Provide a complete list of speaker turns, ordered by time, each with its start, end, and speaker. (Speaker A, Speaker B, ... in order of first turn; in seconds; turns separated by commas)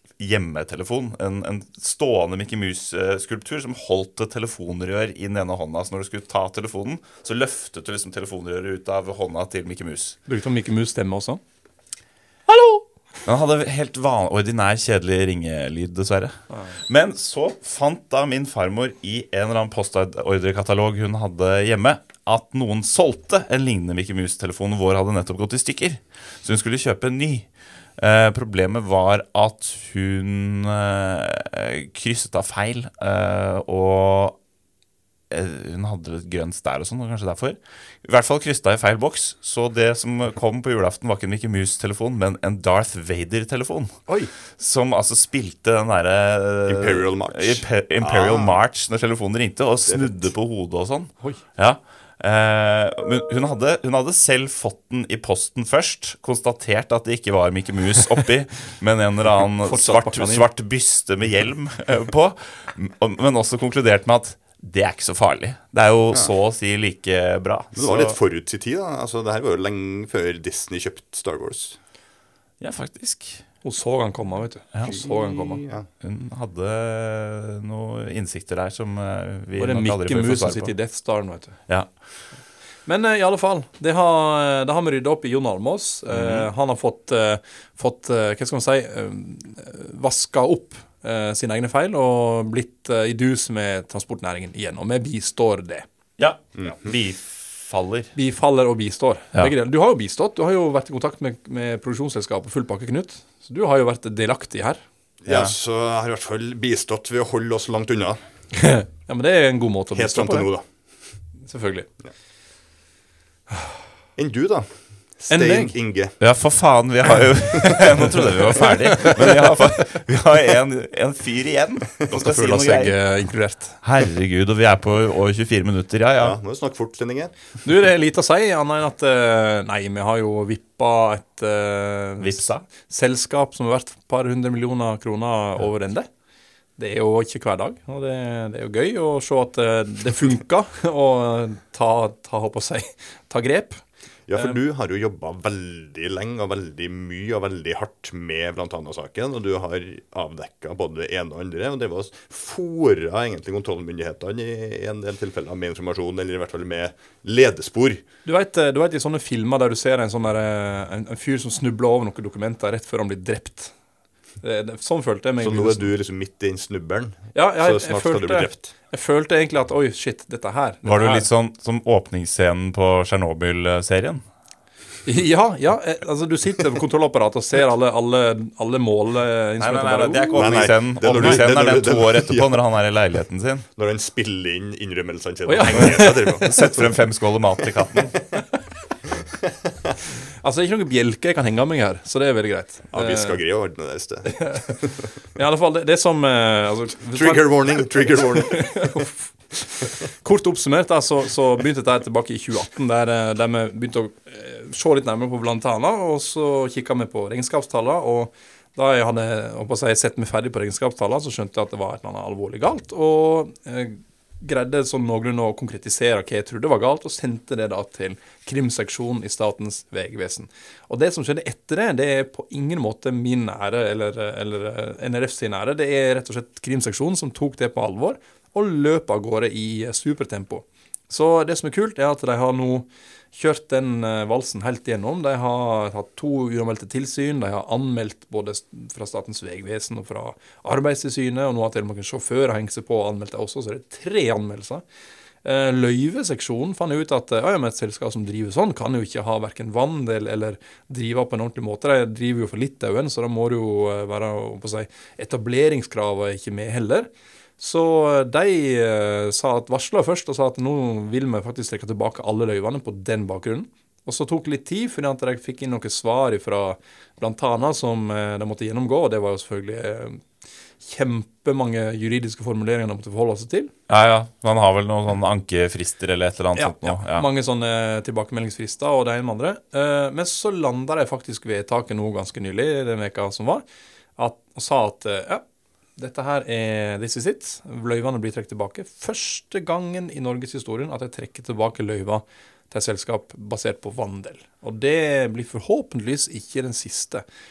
Speaker A: 0.2-10.2, Speaker B: 10.3-11.4, Speaker B: 12.5-12.8, Speaker A: 13.2-34.4, Speaker B: 16.5-16.8, Speaker A: 35.3-43.9, Speaker B: 44.1-44.3, Speaker A: 44.6-68.2, Speaker C: 46.7-48.6, Speaker C: 49.8-50.3, Speaker B: 59.6-60.5, Speaker C: 67.7-71.8, Speaker A: 72.6-73.5, Speaker B: 73.6-75.6, Speaker C: 74.8-75.9, Speaker A: 76.0-80.7, Speaker B: 79.6-81.6, Speaker A: 81.7-82.1, Speaker B: 82.9-95.9, Speaker A: 86.1-86.5, Speaker A: 96.2-98.1, Speaker C: 96.6-96.9, Speaker B: 98.1-104.8, Speaker C: 105.2-108.2, Speaker A: 105.3-105.5, Speaker B: 108.5-110.5, Speaker C: 109.9-110.6, Speaker B: 111.4-111.9, Speaker C: 114.2-116.2, Speaker B: 115.3-115.7, Speaker A: 116.2-122.9, Speaker B: 117.6-119.5, Speaker B: 122.1-123.8, Speaker A: 123.8-126.4, Speaker C: 126.2-127.3, Speaker B: 127.6-136.1, Speaker A: 132.2-132.6, Speaker B: 136.8-143.8, Speaker C: 144.3-158.0, Speaker B: 158.2-163.7, Speaker B: 164.4-165.9, Speaker C: 165.4-168.7, Speaker B: 167.3-171.3, Speaker A: 170.8-174.2, Speaker B: 175.1-181.4, Speaker A: 179.6-183.6, Speaker C: 180.3-182.6, Speaker C: 183.8-186.5, Speaker B: 185.4-186.9, Speaker A: 185.7-188.2, Speaker B: 190.4-193.4, Speaker C: 192.9-194.9, Speaker B: 194.3-194.8, Speaker B: 195.3-244.8, Speaker C: 197.1-199.0, Speaker B: 245.4-270.2, Speaker B: 270.8-273.7, Speaker A: 273.9-277.2, Speaker B: 276.6-283.6, Speaker B: 284.2-285.4, Speaker B: 286.0-297.2